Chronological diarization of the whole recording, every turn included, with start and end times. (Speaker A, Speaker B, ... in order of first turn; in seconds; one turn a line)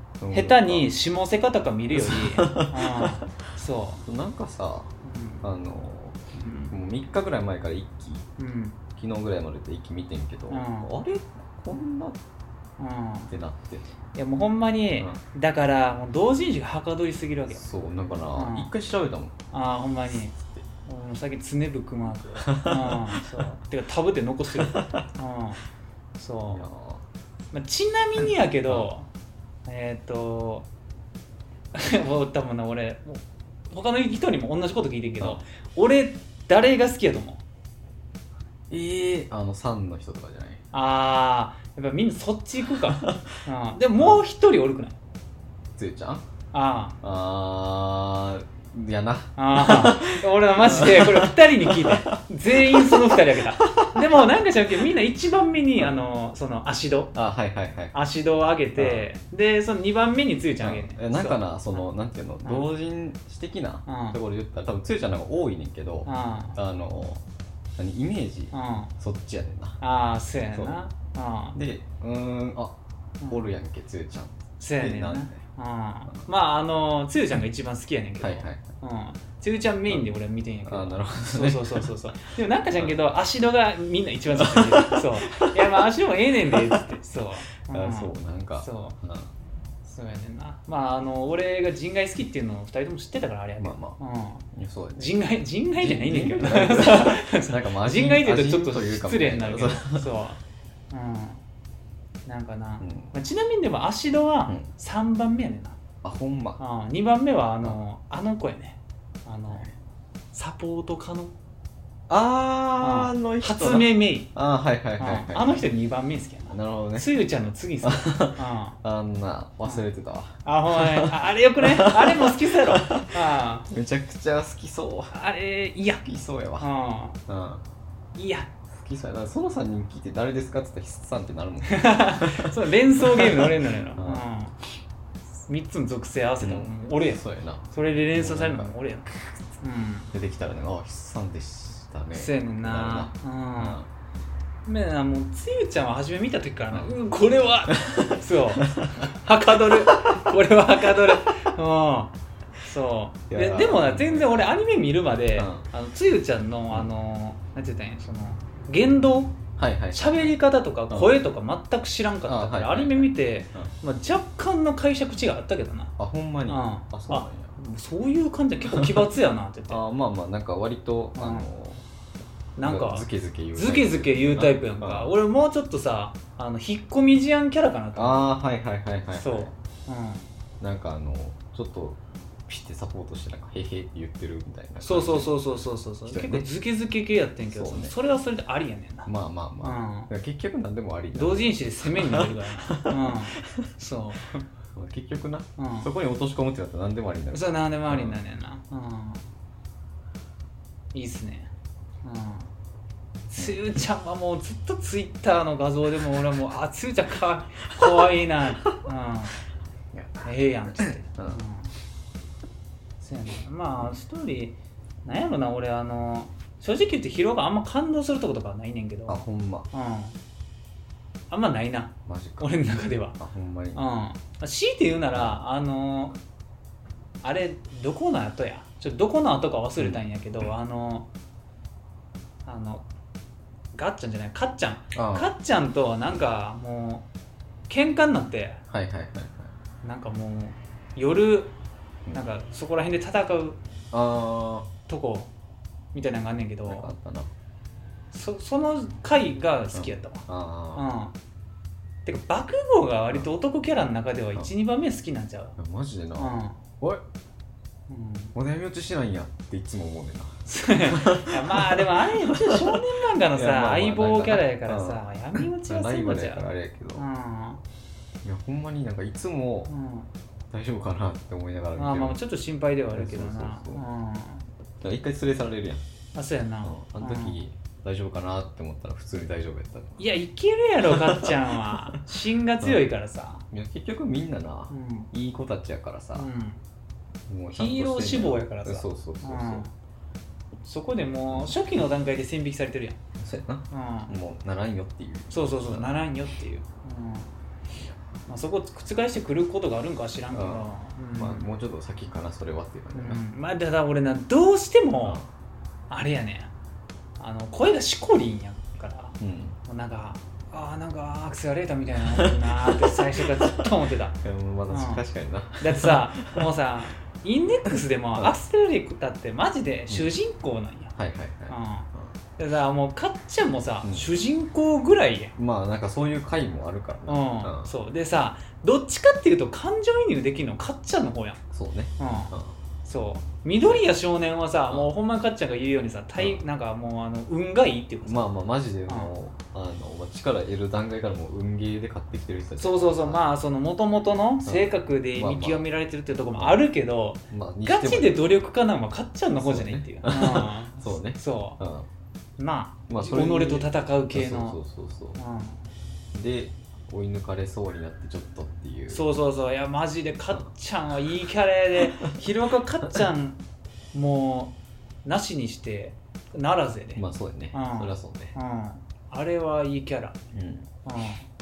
Speaker A: 0.2-0.9
Speaker B: 0.3-4.0
Speaker A: 1.9-3.2
Speaker A: 4.0-4.9
Speaker B: 5.0-5.5
Speaker A: 5.4-8.2
Speaker B: 6.3-6.7
Speaker B: 8.4-8.8
Speaker A: 8.9-12.2
Speaker B: 10.5-11.0
Speaker B: 12.8-13.3
Speaker A: 13.3-13.8
Speaker B: 14.1-17.6
Speaker A: 17.5-19.3
Speaker B: 18.3-18.7
Speaker B: 19.5-20.3
Speaker A: 20.4-20.6
Speaker B: 20.9-25.6
Speaker A: 22.4-23.4
Speaker A: 24.5-25.0
Speaker B: 26.2-26.6
Speaker A: 26.5-27.0
Speaker B: 27.5-29.1
Speaker B: 29.6-30.7
Speaker B: 31.7-37.4
Speaker A: 38.7-40.6
Speaker B: 40.7-45.0
Speaker A: 42.7-43.3
Speaker A: 44.0-44.2
Speaker A: 45.8-46.2
Speaker B: 46.5-47.0
Speaker A: 47.0-54.2
Speaker B: 49.4-57.1
Speaker A: 55.8-56.0
Speaker A: 57.1-57.9
Speaker B: 57.9-61.9
Speaker A: 58.8-59.1
Speaker A: 60.6-67.2
Speaker B: 63.9-64.2
Speaker B: 66.0-66.6
Speaker A: 67.8-69.8
Speaker B: 68.5-68.9
Speaker B: 69.8-71.6
Speaker A: 71.5-72.8
Speaker B: 73.2-73.5
Speaker A: 73.3-75.4
Speaker B: 74.6-89.0
Speaker A: 78.2-78.6
Speaker A: 80.6-81.9
Speaker A: 84.3-85.7
Speaker A: 86.5-86.8
Speaker A: 87.7-89.3
Speaker B: 89.8-101.4
Speaker A: 93.6-94.0
Speaker A: 94.5-95.1
Speaker A: 95.8-100.1
Speaker B: 102.2-105.8
Speaker A: 102.8-103.1
Speaker A: 106.0-106.6
Speaker B: 106.6-109.7
Speaker B: 110.3-111.3
Speaker A: 112.1-115.6
Speaker B: 112.8-114.3
Speaker B: 115.0-118.8
Speaker A: 116.5-117.1
Speaker A: 117.8-125.1
Speaker B: 120.4-123.7
Speaker B: 125.1-126.1
Speaker A: 126.0-126.7
Speaker B: 126.6-127.2
Speaker A: 127.3-127.6
Speaker B: 128.2-128.5
Speaker A: 128.7-134.2
Speaker B: 131.6-134.6
Speaker B: 135.5-140.1
Speaker A: 136.4-138.7
Speaker A: 140.1-143.9
Speaker B: 142.1-143.8
Speaker B: 144.6-159.4
Speaker A: 147.7-149.1
Speaker A: 149.7-150.3
Speaker A: 153.3-154.4
Speaker A: 155.3-155.6
Speaker A: 159.6-160.3
Speaker B: 159.9-165.9
Speaker A: 160.9-161.2
Speaker A: 162.2-163.7
Speaker A: 166.0-167.5
Speaker B: 166.5-169.8
Speaker A: 168.7-169.1
Speaker A: 169.7-171.8
Speaker B: 171.1-171.5
Speaker B: 172.6-178.3
Speaker A: 172.6-175.1
Speaker A: 177.9-179.5
Speaker B: 179.1-180.2
Speaker A: 180.6-185.3
Speaker B: 184.8-189.1
Speaker A: 186.1-186.5
Speaker A: 187.5-187.9
Speaker A: 189.1-193.7
Speaker B: 189.6-190.1
Speaker B: 191.1-194.4
Speaker A: 194.7-198.2
Speaker B: 195.6-195.9
Speaker B: 197.3-199.2
Speaker B: 200.9-201.5
Speaker B: 202.0-202.5
Speaker B: 203.3-209.3
Speaker A: 203.4-203.8
Speaker A: 207.8-208.3
Speaker A: 209.9-211.4
Speaker B: 210.2-211.7
Speaker B: 213.0-220.2
Speaker A: 219.1-219.7
Speaker B: 221.3-223.2
Speaker A: 222.1-222.6
Speaker A: 223.2-223.8
Speaker B: 223.7-226.2
Speaker A: 225.1-225.4
Speaker B: 227.2-231.1
Speaker B: 232.4-232.8
Speaker B: 233.7-237.1
Speaker A: 234.9-235.3
Speaker B: 237.7-238.6
Speaker A: 238.7-239.5
Speaker B: 239.8-241.5
Speaker B: 242.1-243.6
Speaker A: 243.9-244.7
Speaker B: 244.8-245.3
Speaker B: 245.9-246.9
Speaker A: 246.7-247.3
Speaker B: 248.1-251.1
Speaker A: 249.7-250.8
Speaker B: 252.0-255.6
Speaker A: 255.6-257.0
Speaker B: 256.2-256.6
Speaker B: 257.9-258.3
Speaker A: 258.3-262.8
Speaker B: 260.5-267.6
Speaker A: 263.3-267.1
Speaker A: 268.2-269.7
Speaker B: 269.7-270.1
Speaker A: 270.5-272.2
Speaker B: 271.8-274.4
Speaker A: 272.9-273.8
Speaker A: 274.8-275.8
Speaker B: 276.1-277.4
Speaker A: 276.6-280.1
Speaker B: 280.0-283.4
Speaker A: 280.8-282.0
Speaker A: 282.6-282.9
Speaker A: 283.5-286.3
Speaker B: 284.7-285.1
Speaker B: 286.1-286.6
Speaker A: 287.3-289.6
Speaker B: 287.5-289.7
Speaker B: 290.6-293.0
Speaker A: 291.3-291.6
Speaker A: 293.2-296.1
Speaker B: 293.7-294.1
Speaker B: 295.3-297.3
Speaker B: 298.3-301.4
Speaker A: 300.3-303.2
Speaker B: 302.9-305.2
Speaker A: 305.0-305.3
Speaker B: 305.9-306.5
Speaker B: 307.2-315.0
Speaker A: 309.2-309.6
Speaker A: 312.1-313.7
Speaker A: 314.2-316.5
Speaker B: 315.6-320.9
Speaker A: 320.9-322.2
Speaker B: 321.5-325.3
Speaker A: 323.8-324.1
Speaker A: 325.4-327.7
Speaker B: 327.1-331.4
Speaker A: 331.5-332.6
Speaker B: 332.0-332.3
Speaker B: 332.8-338.3
Speaker A: 336.2-336.4
Speaker A: 338.0-343.2
Speaker B: 338.9-339.1
Speaker B: 342.6-351.6
Speaker A: 344.4-345.7
Speaker A: 346.4-346.6
Speaker A: 347.3-348.5
Speaker A: 349.4-351.9
Speaker B: 352.4-354.6
Speaker A: 352.9-355.2
Speaker B: 355.1-355.6
Speaker A: 356.1-359.1
Speaker B: 358.9-363.4
Speaker B: 363.9-367.0
Speaker A: 366.9-368.3
Speaker B: 367.5-370.2
Speaker A: 370.3-370.7
Speaker B: 370.8-371.3